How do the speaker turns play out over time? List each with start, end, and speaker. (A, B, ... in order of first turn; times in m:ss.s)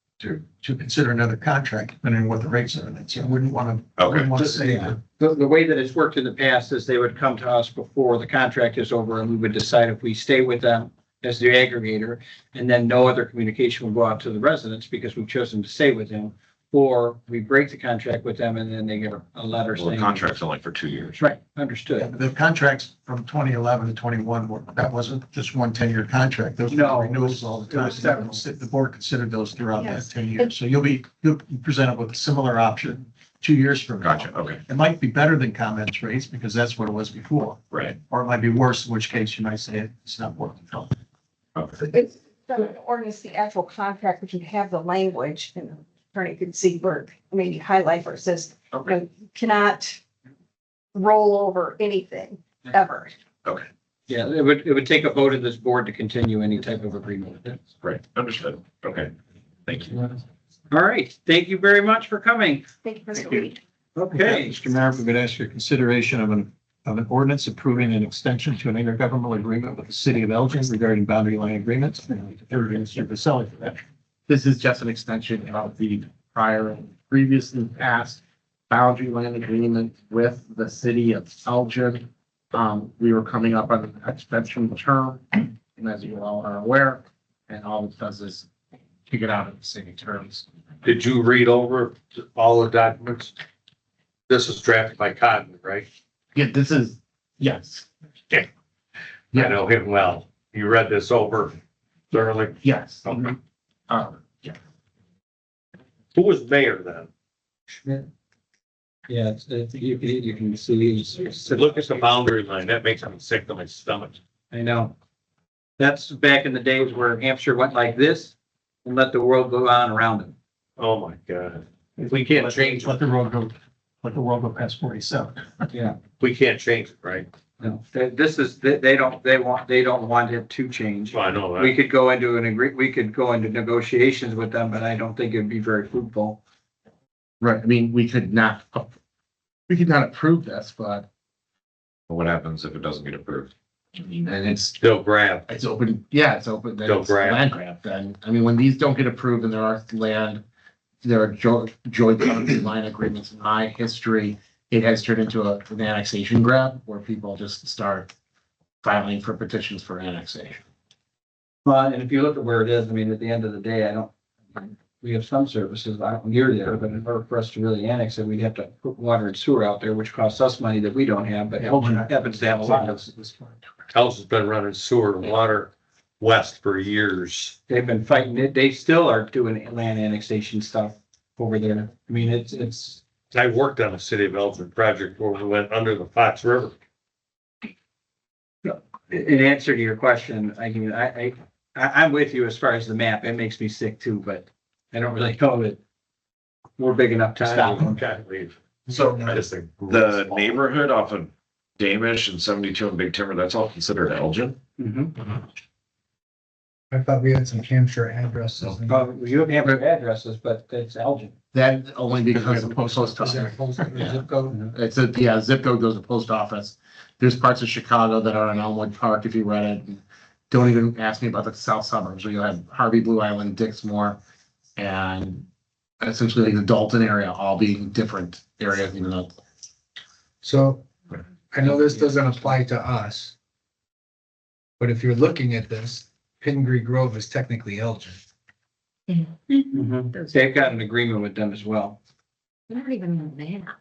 0:00.2-0:05.0 A
0:04.0-0:04.3 B
0:04.4-0:20.3 C
0:19.8-0:21.2 B
0:21.2-0:22.1 C
0:22.0-0:40.9 A
0:26.7-0:28.4 C
0:29.8-0:30.5 D
0:34.0-0:34.6 B
0:37.7-0:38.0 B
0:41.5-0:41.8 B
0:41.8-0:50.0 D
0:50.9-0:53.2 D
0:54.1-0:57.6 C
0:57.8-0:59.1 B
0:59.6-1:00.1 B
1:00.7-1:02.6 C
1:02.8-1:03.6 D
1:03.9-1:04.5 C
1:04.1-1:13.8 A
1:14.3-1:28.5 E
1:29.1-1:30.4 E
1:30.8-1:33.3 F
1:34.3-1:35.9 F
1:36.3-1:37.9 E
1:39.3-1:39.6 E
1:39.3-1:41.6 F
1:42.1-1:43.4 F
1:42.6-1:43.4 E
1:43.9-1:44.6 E
1:46.1-1:47.1 F
1:47.8-1:48.1 C
1:49.1-1:52.0 C
1:51.5-1:54.2 F
1:54.5-1:54.9 C
1:55.8-1:58.3 C
1:58.8-2:00.3 C
2:00.8-2:02.9 F
2:02.0-2:05.7 A
2:05.7-2:06.0 C
2:06.2-2:07.3 F
2:07.6-2:16.4 C
2:11.1-2:11.8 F
2:17.4-2:18.9 E
2:19.7-2:21.1 E
2:22.1-2:23.5 B
2:24.0-2:24.8 E
2:24.8-2:25.4 F
2:25.5-2:30.4 E
2:26.8-2:27.4 F
2:31.0-2:38.1 E
2:38.8-2:40.6 E
2:41.6-2:53.0 C
2:51.6-2:53.7 A
2:53.9-2:57.5 F
2:57.7-3:03.0 C
3:03.3-3:06.7 F
3:08.6-3:15.8 C
3:16.8-3:18.0 C
3:17.4-3:20.6 F
3:18.9-3:19.2 G
3:19.2-3:24.6 B
3:24.8-3:25.1 C
3:26.9-3:29.0 G
3:28.9-3:31.3 C
3:31.5-3:44.2 E
3:32.3-3:34.3 A
3:33.8-3:34.2 G
3:44.8-3:45.4 E
3:46.0-3:49.3 E
3:50.4-3:50.8 G
3:51.5-3:53.3 G
3:54.8-3:58.2 G
3:59.7-4:02.0 C